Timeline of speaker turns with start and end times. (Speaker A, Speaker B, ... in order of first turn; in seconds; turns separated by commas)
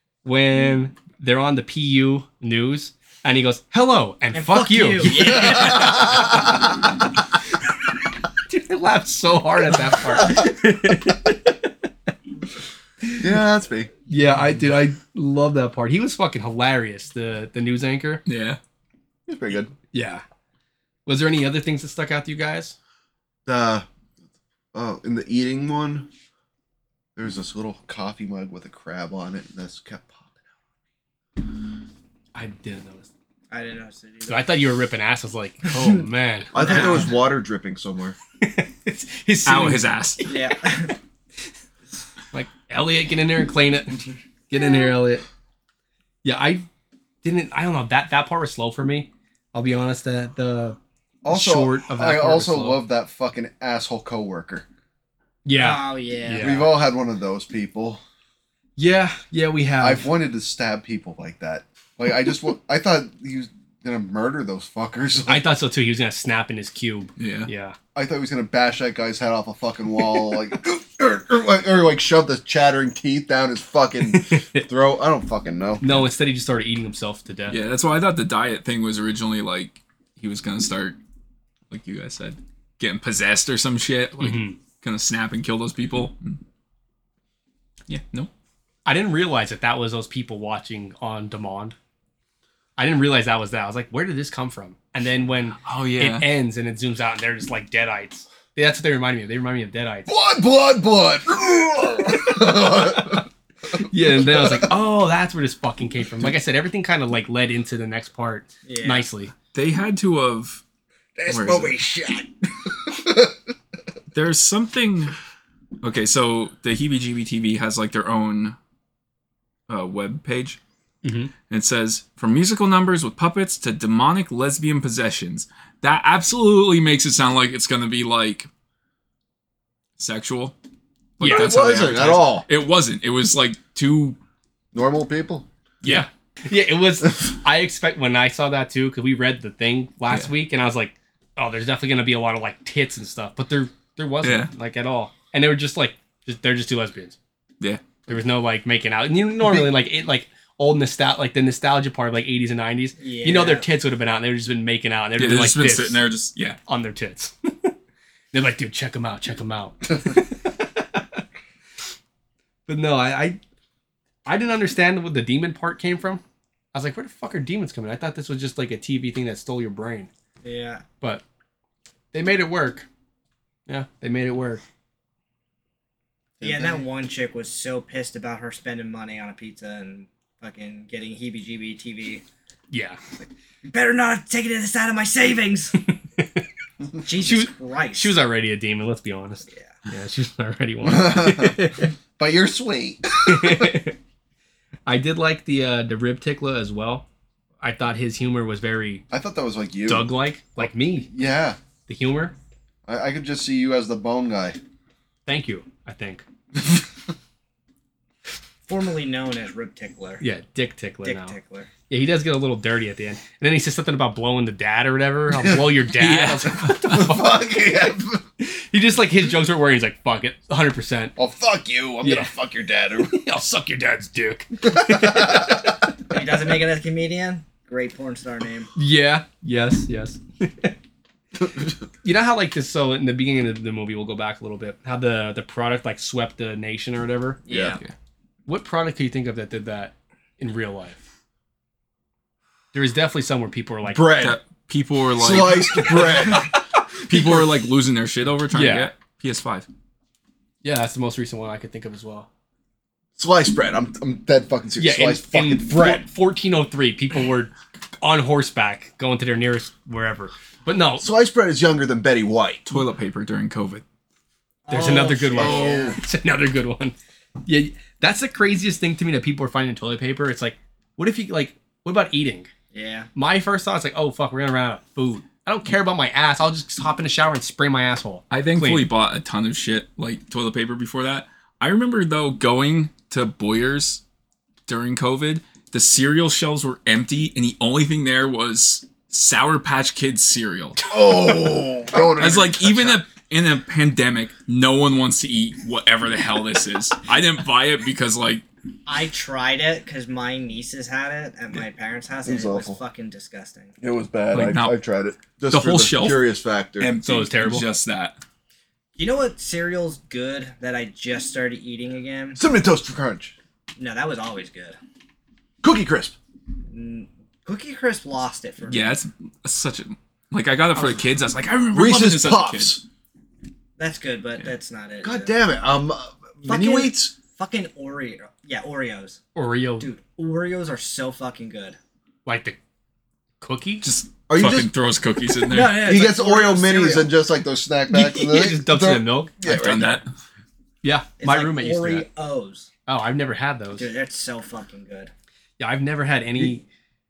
Speaker A: 0.2-6.7, Speaker B: 4.3-6.3, Speaker C: 5.1-6.9, Speaker A: 8.4-11.9, Speaker C: 13.2-13.9, Speaker A: 14.1-18.2, Speaker D: 18.2-18.6, Speaker C: 19.3-19.7, Speaker A: 19.9-20.2, Speaker A: 21.1-22.7, Speaker C: 23.4-23.9, Speaker C: 24.7-26.1, Speaker C: 27.1-30.3, Speaker A: 32.4-33.1, Speaker B: 33.5-34.6, Speaker A: 34.3-37.1, Speaker C: 36.5-38.2, Speaker B: 36.6-37.1, Speaker A: 38.4-40.3, Speaker D: 39.5-40.2, Speaker B: 40.3-40.9, Speaker A: 42.3-45.2, Speaker A: 46.2-46.6, Speaker A: 47.2-50.8, Speaker C: 51.2-54.6, Speaker A: 51.3-52.8, Speaker A: 55.4-56.7, Speaker B: 55.6-56.7, Speaker C: 56.4-58.0, Speaker A: 58.8-60.1, Speaker C: 59.8-65.5, Speaker A: 65.3-67.8, Speaker D: 67.2-67.5, Speaker C: 67.9-76.0, Speaker A: 74.1-74.7, Speaker A: 75.8-77.6, Speaker D: 77.5-81.0, Speaker D: 81.7-86.4, Speaker A: 84.2-84.6, Speaker D: 87.9-88.3, Speaker A: 88.9-91.8, Speaker A: 92.8-100.1, Speaker D: 95.6-96.3, Speaker C: 100.1-104.7, Speaker A: 103.8-109.3, Speaker B: 108.6-109.1, Speaker D: 109.5-110.6, Speaker C: 111.2-113.4, Speaker D: 111.3-111.8, Speaker D: 114.1-115.2, Speaker D: 115.8-118.6, Speaker D: 119.7-120.6, Speaker A: 121.0-121.3, Speaker D: 121.5-128.5, Speaker D: 130.0-130.6, Speaker D: 131.2-134.2, Speaker A: 131.2-131.5, Speaker C: 131.2-132.4, Speaker C: 134.7-135.5, Speaker A: 135.8-147.2, Speaker D: 144.2-144.5, Speaker A: 148.1-156.0, Speaker C: 149.4-149.7, Speaker B: 153.0-153.7, Speaker D: 155.2-156.6, Speaker A: 156.7-157.7, Speaker A: 158.3-161.2, Speaker A: 162.7-163.4, Speaker A: 164.2-166.2, Speaker A: 166.7-170.1, Speaker B: 170.4-170.8, Speaker A: 172.1-172.9, Speaker A: 173.7-174.6, Speaker C: 176.4-176.8, Speaker B: 176.4-182.2, Speaker A: 182.7-183.1, Speaker B: 183.6-185.7, Speaker A: 185.9-186.4, Speaker B: 187.0-188.1, Speaker A: 187.2-191.9, Speaker C: 190.8-193.7, Speaker A: 193.2-194.0, Speaker A: 194.9-197.1, Speaker A: 197.6-199.0, Speaker C: 199.1-201.6, Speaker A: 199.9-201.1, Speaker A: 201.9-202.3, Speaker C: 202.9-204.6, Speaker A: 205.2-206.2, Speaker B: 208.7-210.2, Speaker A: 210.2-211.3, Speaker B: 211.0-211.7, Speaker A: 211.9-217.3, Speaker C: 215.4-215.8, Speaker D: 216.0-217.1, Speaker C: 216.8-218.2, Speaker A: 218.4-221.1, Speaker C: 221.2-223.2, Speaker A: 222.0-222.3, Speaker A: 223.0-225.9, Speaker C: 224.6-225.8, Speaker B: 226.1-228.7, Speaker A: 228.7-230.8, Speaker C: 231.4-231.8, Speaker A: 232.0-237.4, Speaker B: 237.4-237.8, Speaker C: 237.5-237.8, Speaker D: 237.7-237.9, Speaker A: 238.4-241.0, Speaker A: 242.7-244.2, Speaker C: 243.9-244.4, Speaker D: 244.2-246.0, Speaker C: 245.1-246.6, Speaker A: 245.8-246.6, Speaker D: 247.1-249.7, Speaker C: 247.1-247.5, Speaker A: 248.5-248.9, Speaker A: 250.6-252.3, Speaker C: 253.2-256.1, Speaker A: 254.8-261.1, Speaker C: 261.0-262.6, Speaker D: 262.7-263.8, Speaker B: 264.6-265.9, Speaker A: 264.7-272.5, Speaker C: 265.4-266.0, Speaker B: 272.7-273.1, Speaker A: 273.1-278.9, Speaker D: 278.3-284.0, Speaker D: 284.7-290.9, Speaker C: 290.9-293.1, Speaker D: 291.9-298.4, Speaker B: 298.9-303.7, Speaker C: 302.2-302.8, Speaker C: 303.8-306.9, Speaker D: 304.3-304.8, Speaker D: 305.5-306.3, Speaker D: 306.8-308.2, Speaker A: 307.0-307.7, Speaker B: 309.0-312.4, Speaker C: 312.4-313.3, Speaker B: 313.8-314.8, Speaker C: 315.6-316.1, Speaker B: 316.7-318.9, Speaker D: 318.6-322.8, Speaker C: 321.7-322.8, Speaker B: 323.8-325.3, Speaker C: 325.0-327.1, Speaker B: 326.4-329.2, Speaker A: 329.4-329.9, Speaker B: 329.8-331.8, Speaker A: 332.2-332.6, Speaker A: 333.4-333.9, Speaker D: 333.8-335.9, Speaker C: 334.3-334.7, Speaker B: 335.4-337.1, Speaker C: 335.7-340.0, Speaker A: 337.9-339.4, Speaker D: 339.4-340.1, Speaker A: 340.8-342.1, Speaker B: 341.2-342.7, Speaker A: 342.9-343.9, Speaker B: 343.8-345.1, Speaker A: 345.6-346.6